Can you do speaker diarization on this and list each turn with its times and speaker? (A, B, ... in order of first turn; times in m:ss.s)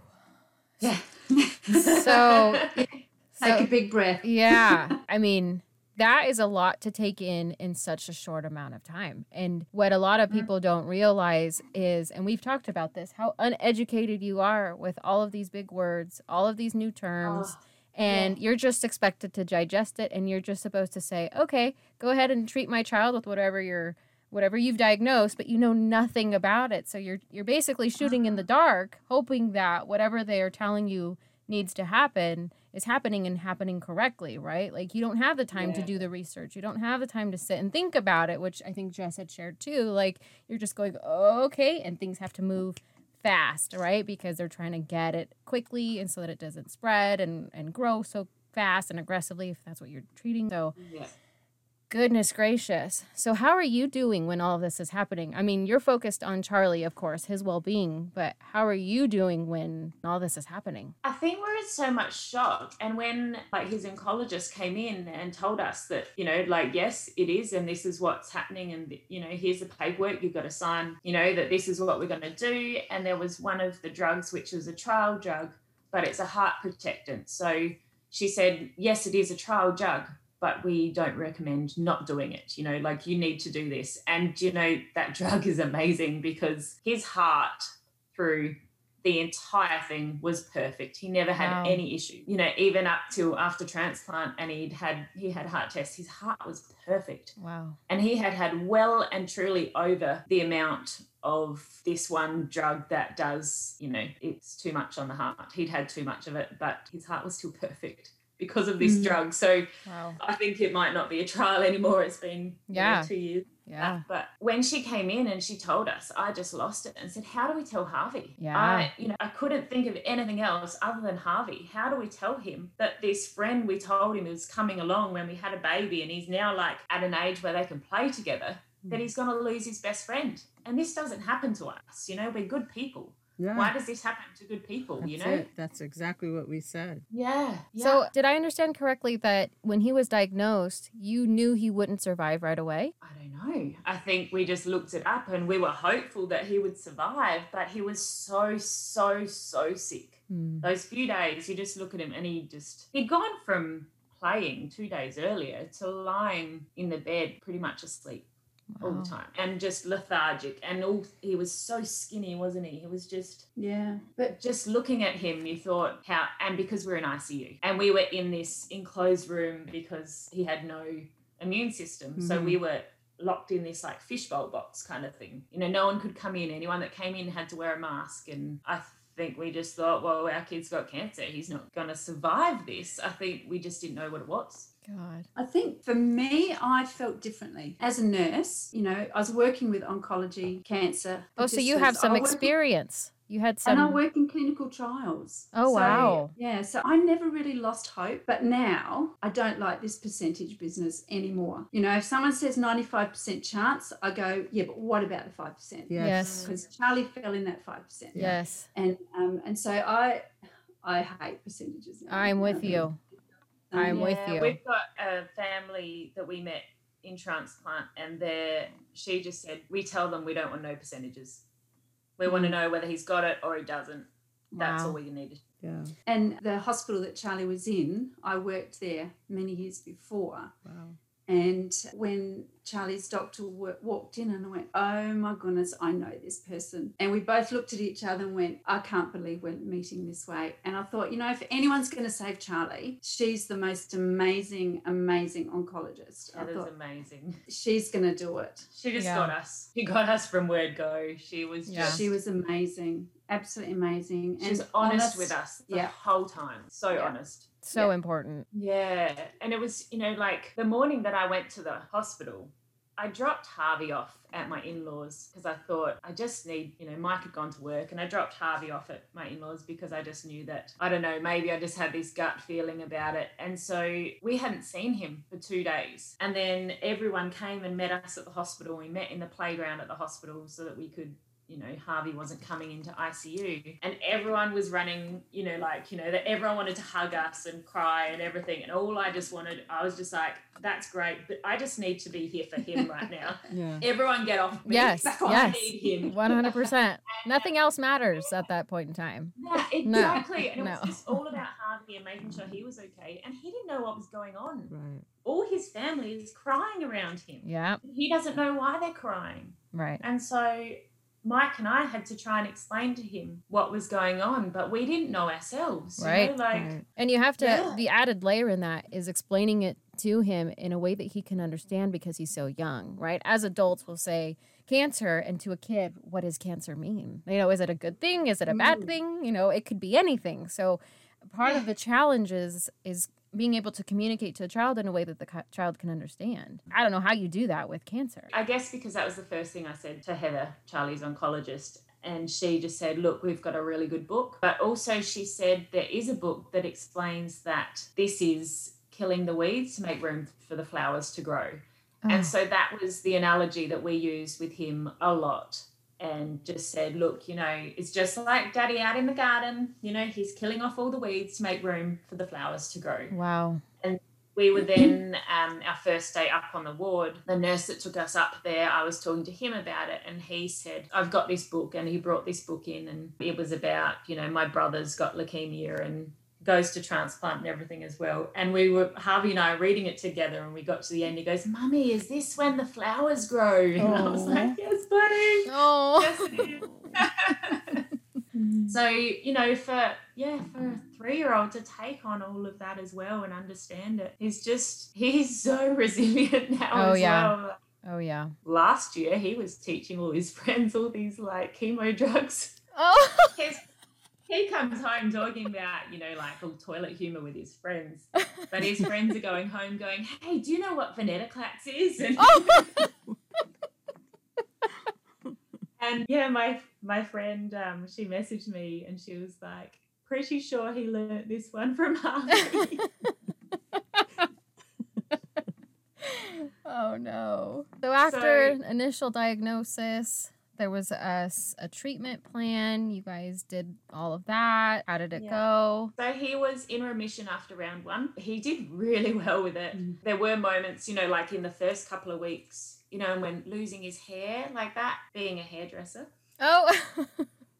0:00.8-0:01.1 A
0:01.3-0:02.2 B
0:01.7-0:03.0 A
0:01.9-0:03.7 C
0:03.4-0:04.9 B
0:04.2-0:50.8 C
0:17.2-0:18.3 A
0:50.8-0:51.1 A
0:51.9-1:00.9 C
1:01.0-1:37.3 A
1:31.4-1:31.8 C
1:37.4-1:37.8 C
1:37.9-1:49.7 A
1:48.8-1:49.2 B
1:49.8-1:50.2 C
1:50.2-2:15.5 A
1:52.7-1:53.1 C
1:53.6-1:54.0 C
1:58.4-1:58.9 C
2:13.4-2:13.7 D
2:15.0-2:17.0 D
2:17.1-2:18.1 A
2:17.8-2:22.9 C
2:23.0-2:38.3 A
2:30.3-2:30.7 C
2:38.7-2:39.1 C
2:38.8-2:43.5 A
2:43.6-2:44.4 B
2:44.3-3:04.7 A
2:52.2-2:52.6 D
3:04.8-3:05.3 C
3:05.4-3:12.5 B
3:11.4-3:14.0 C
3:13.6-3:30.2 B
3:15.5-3:16.3 C
3:15.8-3:16.2 A
3:25.9-3:26.3 D
3:26.0-3:26.5 C
3:26.2-3:26.6 A
3:28.1-3:28.7 C
3:30.8-3:33.0 B
3:32.1-3:33.0 C
3:33.7-3:34.0 B
3:33.7-3:34.6 C
3:33.8-3:41.4 A
3:42.2-3:45.4 A
3:42.3-3:42.5 C
3:44.5-3:45.0 C
3:45.6-3:45.9 D
3:46.0-3:50.5 B
3:50.6-3:51.0 D
3:51.3-4:06.7 B
4:06.3-4:07.4 A
4:07.5-4:08.7 B
4:08.7-4:12.1 A
4:09.0-4:09.3 C
4:11.6-4:12.0 C
4:11.7-4:15.9 B
4:14.4-4:17.6 A
4:17.6-4:18.4 C
4:18.5-4:56.6 A
4:53.5-4:53.9 D
4:54.6-5:01.2 C
4:55.2-4:56.1 B
4:57.2-4:57.5 A
4:59.4-5:04.7 A
5:04.7-5:05.0 D
5:05.2-5:16.7 A
5:07.4-5:07.8 C
5:09.7-5:10.0 C
5:16.0-5:38.3 C
5:16.5-5:16.8 D
5:17.4-5:17.8 A
5:38.3-6:03.1 A
5:52.0-5:52.3 C
6:03.1-6:03.6 C
6:03.8-6:27.8 A
6:23.8-6:24.6 D
6:25.5-6:27.0 C
6:28.7-6:37.6 A
6:36.7-6:38.3 C
6:38.4-6:42.6 A
6:42.8-6:43.4 C
6:43.3-6:43.6 A
6:44.3-6:52.8 A
6:52.2-6:52.8 C
6:55.8-7:02.9 A
7:06.0-7:15.9 C
7:08.0-7:08.6 A
7:15.1-7:26.1 A
7:26.4-7:27.3 C